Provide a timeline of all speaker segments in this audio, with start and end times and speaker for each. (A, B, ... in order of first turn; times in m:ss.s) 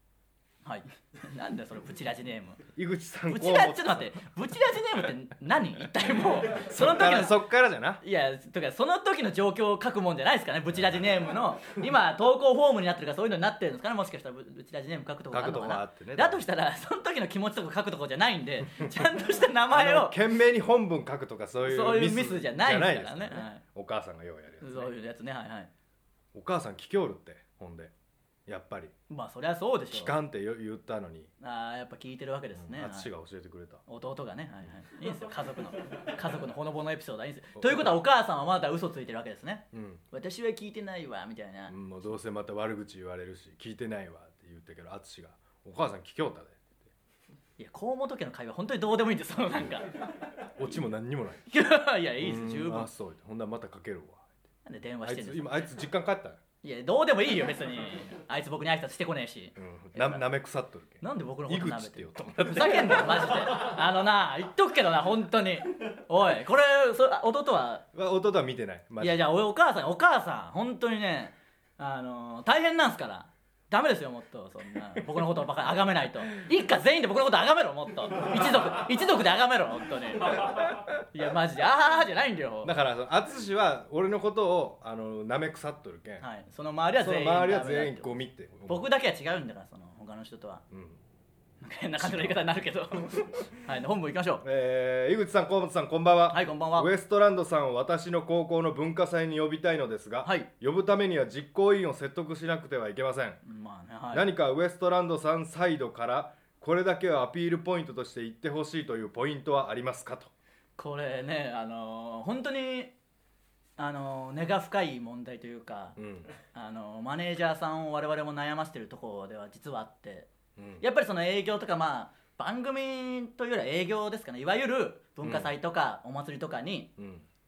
0:00.6-0:02.6 A
0:02.7-0:04.1 B
0:03.3-0:07.4 A
0:06.5-0:08.0 B
0:08.0-0:20.2 A
0:15.3-0:16.4 B
0:19.7-0:24.9 B
0:21.7-0:23.6 A
0:24.6-0:25.7 A
0:26.3-0:27.9 B
0:28.5-0:28.9 B
0:29.1-0:30.1 A
0:29.9-0:31.3 B
0:31.4-0:33.1 A
0:32.6-0:33.8 B
0:33.9-0:41.7 A
0:37.6-0:37.9 B
0:39.7-0:40.0 B
0:41.7-0:46.9 B
0:47.6-0:50.1 A
0:50.6-0:51.5 B
0:51.5-0:52.9 A
0:52.2-0:54.3 B
0:54.6-0:55.7 A
0:55.0-0:56.4 B
0:56.6-1:00.3 A
0:59.6-1:03.5 B
1:01.0-1:07.8 A
1:07.9-1:09.3 B
1:09.0-1:22.8 A
1:20.4-1:20.9 B
1:22.6-1:26.3 B
1:26.2-1:28.1 A
1:27.0-1:28.9 B
1:28.7-1:30.6 A
1:30.7-1:31.0 B
1:31.6-1:34.4 A
1:32.0-1:33.2 B
1:34.4-1:43.4 B
1:36.3-1:36.9 A
1:43.4-1:44.3 A
1:44.1-1:50.3 B
1:50.8-1:52.9 A
1:53.8-1:56.0 A
1:56.0-1:56.3 B
1:56.5-2:00.3 A
2:00.6-2:00.8 B
2:00.8-2:06.9 A
2:05.2-2:05.5 B
2:07.0-2:07.2 B